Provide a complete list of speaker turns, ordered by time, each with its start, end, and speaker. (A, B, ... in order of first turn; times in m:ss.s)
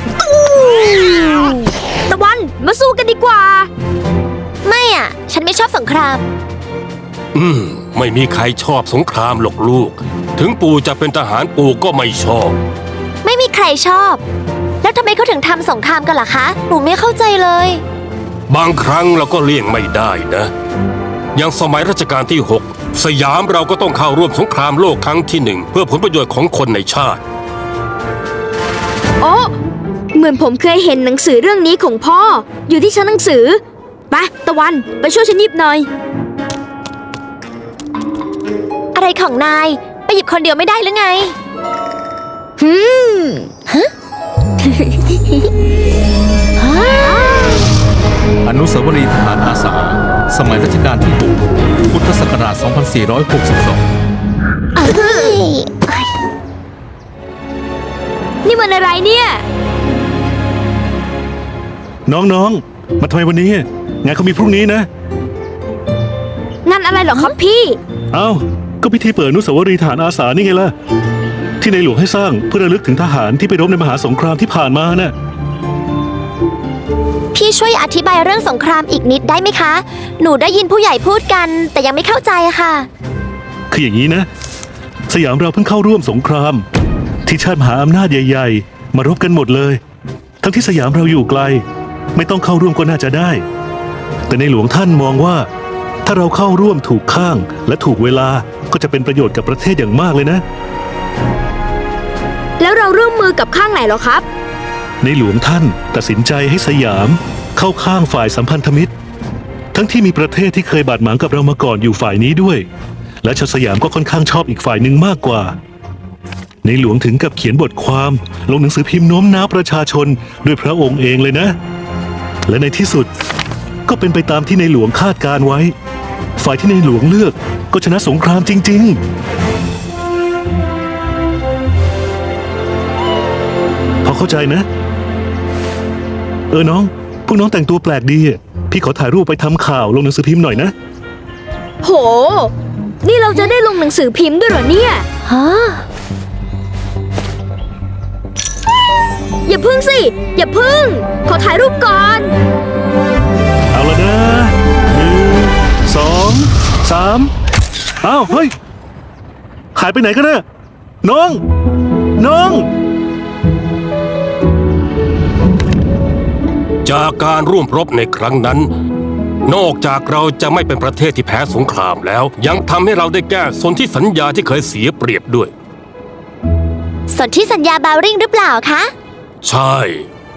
0:00.2-0:03.7 A
0:04.6-0:06.2 B
0:07.3-0:12.6 C
0:13.2-0:14.2 B
0:14.8-0:17.8 B
0:18.5-0:20.5 C
0:21.4-0:27.2 C
0:29.2-0:29.6 A
0:30.1-0:35.9 A
0:38.9-0:41.4 B
0:42.6-0:43.5 A
0:44.7-0:45.4 B
0:46.6-0:47.6 B
0:48.5-0:53.8 D
0:54.8-0:56.1 B
0:58.4-0:59.4 A
1:02.1-1:04.9 E
1:06.6-1:07.8 A
1:08.1-1:10.7 E
1:11.6-1:15.1 E
1:17.3-1:22.9 B
1:23.7-1:24.3 E
1:25.1-1:26.6 E
1:27.3-1:29.8 E
1:30.4-1:31.6 E
1:32.2-1:33.4 E
1:34.3-1:35.5 E
1:36.0-1:40.4 E
1:42.6-1:44.2 A
1:45.0-1:48.9 E
1:49.7-1:52.7 E
1:53.2-1:55.6 E
1:56.6-2:01.6 E
2:02.5-2:03.1 E
2:03.9-2:05.7 E
2:06.4-2:09.0 E
2:14.0-2:14.7 E
2:16.5-2:20.7 E
2:21.8-2:25.1 A
2:25.3-2:25.8 B
2:29.5-2:32.3 A
2:33.7-2:37.3 E
2:38.0-2:38.5 E
2:39.8-2:40.4 E
2:41.0-2:41.4 E
2:42.2-2:42.7 E
2:46.8-2:48.7 C
2:49.4-2:55.5 C
2:57.1-2:58.9 B
2:59.4-3:00.1 C